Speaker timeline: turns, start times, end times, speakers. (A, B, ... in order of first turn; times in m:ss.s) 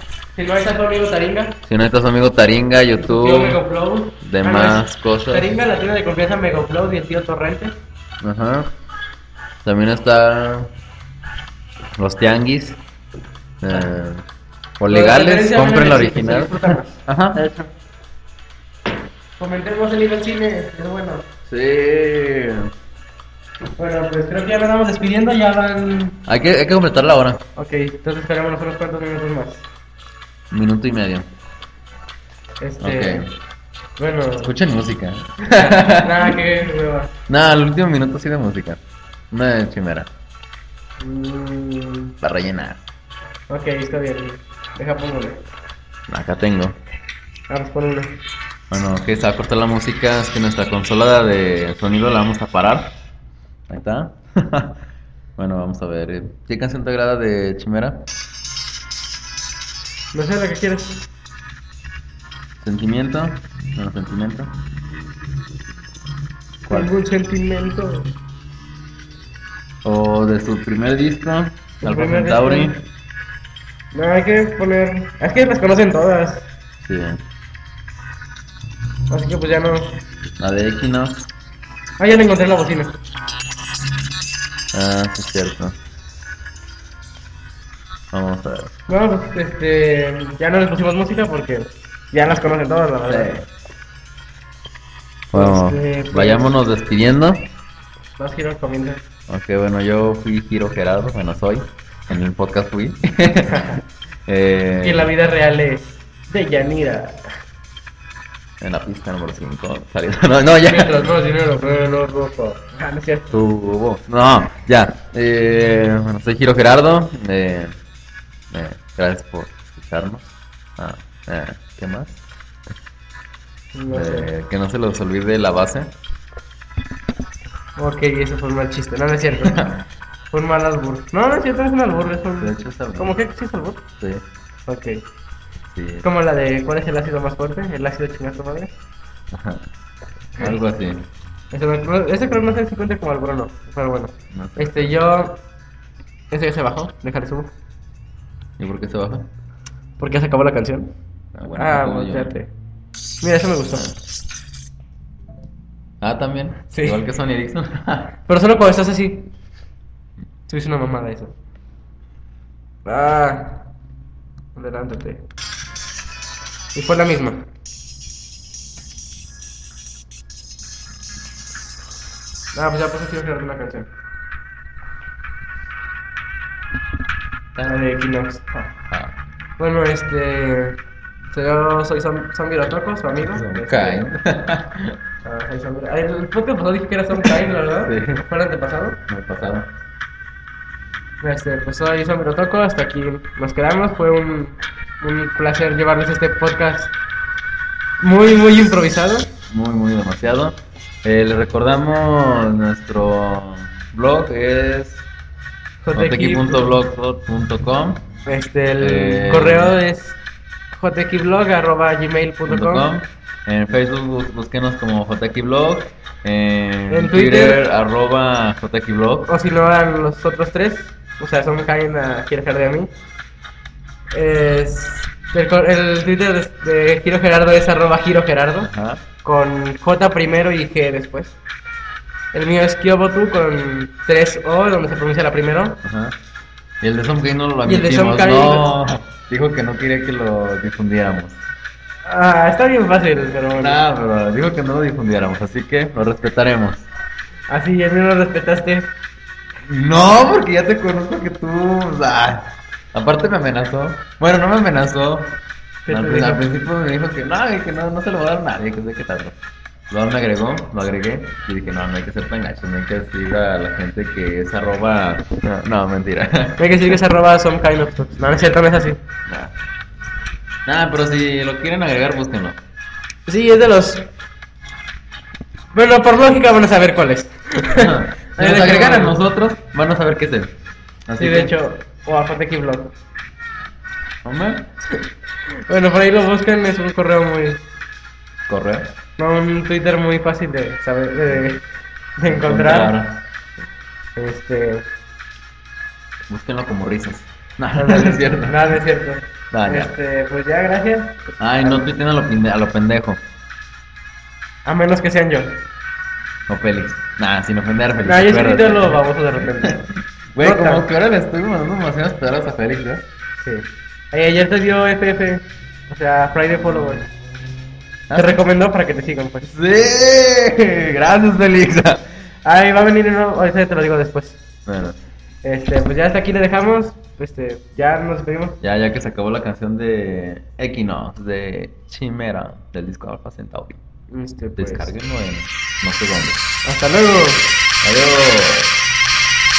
0:00.4-0:01.6 A
0:01.7-0:03.6 B
0:03.0-0:07.8 A
0:04.2-0:05.5 B
0:08.2-0:08.7 B
0:09.6-0:10.7 B
0:12.0-0:12.8 B
0:13.6-0:14.2 B
0:14.8-0:17.4 B
0:14.9-0:17.7 A
0:19.4-0:21.3 A
0:21.5-0:22.7 B
0:23.8-0:26.2 A
0:26.3-0:27.4 B
0:27.6-0:29.7 A
0:30.5-0:31.3 B
0:32.6-0:33.3 A
0:32.8-0:33.3 B
0:34.0-0:34.5 A
0:34.4-0:36.3 B
0:35.5-0:37.1 A
0:37.3-0:38.8 B
0:39.3-0:40.1 B
0:41.0-0:42.2 A
0:42.2-0:42.8 B
0:43.5-0:45.4 A
0:46.1-0:46.8 B
0:47.5-0:48.2 A
0:48.7-0:52.9 B
0:53.7-0:54.8 B
0:55.4-0:58.1 B
1:00.1-1:01.1 A
1:02.6-1:04.5 B
1:06.6-1:06.9 B
1:06.7-1:08.1 A
1:09.8-1:12.8 B
1:11.8-1:12.7 A
1:13.9-1:16.5 A
1:16.8-1:17.2 B
1:19.1-1:20.0 A
1:20.4-1:21.3 B
1:22.0-1:23.0 A
1:24.7-1:25.8 B
1:28.1-1:28.8 B
1:28.9-1:33.3 A
1:33.0-1:33.5 B
1:35.3-1:36.5 A
1:35.3-1:37.5 B
1:38.2-1:39.0 A
1:39.3-1:45.1 B
1:43.5-1:43.8 A
1:44.8-1:47.2 A
1:48.6-1:51.1 B
1:50.7-1:53.4 A
1:53.3-1:57.8 B
1:58.5-2:02.2 B
2:03.7-2:04.3 A
2:03.9-2:05.9 B
2:07.8-2:09.6 A
2:09.4-2:09.8 B
2:10.3-2:13.8 A
2:12.4-2:13.2 B
2:14.0-2:14.2 B
2:14.7-2:15.0 A
2:15.7-2:16.1 B
2:16.0-2:18.7 A
2:19.3-2:19.7 B
2:20.4-2:21.1 B
2:21.5-2:25.4 A
2:24.3-2:24.9 B
2:26.3-2:27.5 A
2:28.6-2:29.3 B
2:30.0-2:30.9 A
2:31.3-2:32.4 B
2:31.5-2:32.5 A
2:33.2-2:33.9 A
2:36.0-2:38.2 B
2:36.7-2:37.0 A
2:38.3-2:39.3 A
2:40.5-2:41.3 A
2:42.8-2:43.7 A
2:44.6-2:45.3 A
2:46.8-2:47.5 A
2:52.5-2:53.9 A
2:57.7-2:58.7 A
2:58.9-2:59.2 B
2:59.6-3:04.1 A
3:03.3-3:05.0 B
3:05.2-3:09.0 A
3:07.8-3:08.2 B
3:09.1-3:09.7 B
3:11.2-3:16.9 A
3:18.0-3:19.3 A
3:19.5-3:25.1 B
3:25.8-3:26.8 A
3:25.9-3:28.1 B
3:28.3-3:30.2 A
3:28.8-3:29.8 B
3:30.7-3:32.9 A
3:32.5-3:39.3 B
3:36.9-3:37.6 A
3:39.3-3:42.9 A
3:44.1-3:48.7 A
3:48.7-3:49.0 B
3:49.2-3:51.4 A
3:52.3-3:55.8 A
3:55.8-3:56.2 B
3:56.8-4:01.4 B
3:57.6-3:58.7 A
4:02.0-4:03.8 A
4:03.6-4:06.9 B
4:07.5-4:08.9 A
4:09.6-4:15.4 B
4:15.8-4:16.4 A
4:15.9-4:19.4 B
4:19.9-4:27.0 B
4:26.6-4:29.0 A
4:29.3-4:29.5 B
4:30.7-4:32.6 B
4:33.3-4:34.1 A
4:35.7-4:39.2 A
4:37.7-4:40.5 B
4:41.1-4:41.6 B
4:41.2-4:43.0 A
4:44.2-4:44.7 B
4:45.0-4:47.6 A
4:48.5-4:49.0 B
4:49.2-4:51.7 A
4:52.2-4:53.0 A
4:52.3-4:53.2 B
4:54.2-4:54.9 A
4:56.3-4:58.6 B
4:57.8-5:01.9 A
4:59.5-4:59.9 B
5:01.4-5:03.2 B
5:04.6-5:05.6 A
5:06.5-5:13.0 B
5:08.0-5:09.8 A
5:10.4-5:10.9 A
5:13.4-5:17.1 A
5:18.1-5:18.4 B
5:18.2-5:19.4 A
5:19.4-5:22.1 B
5:22.4-5:24.4 A
5:24.7-5:25.0 B
5:25.4-5:28.6 A
5:28.6-5:33.8 B
5:34.1-5:34.9 A
5:34.6-5:36.4 B
5:36.6-5:37.5 A
5:37.8-5:38.8 B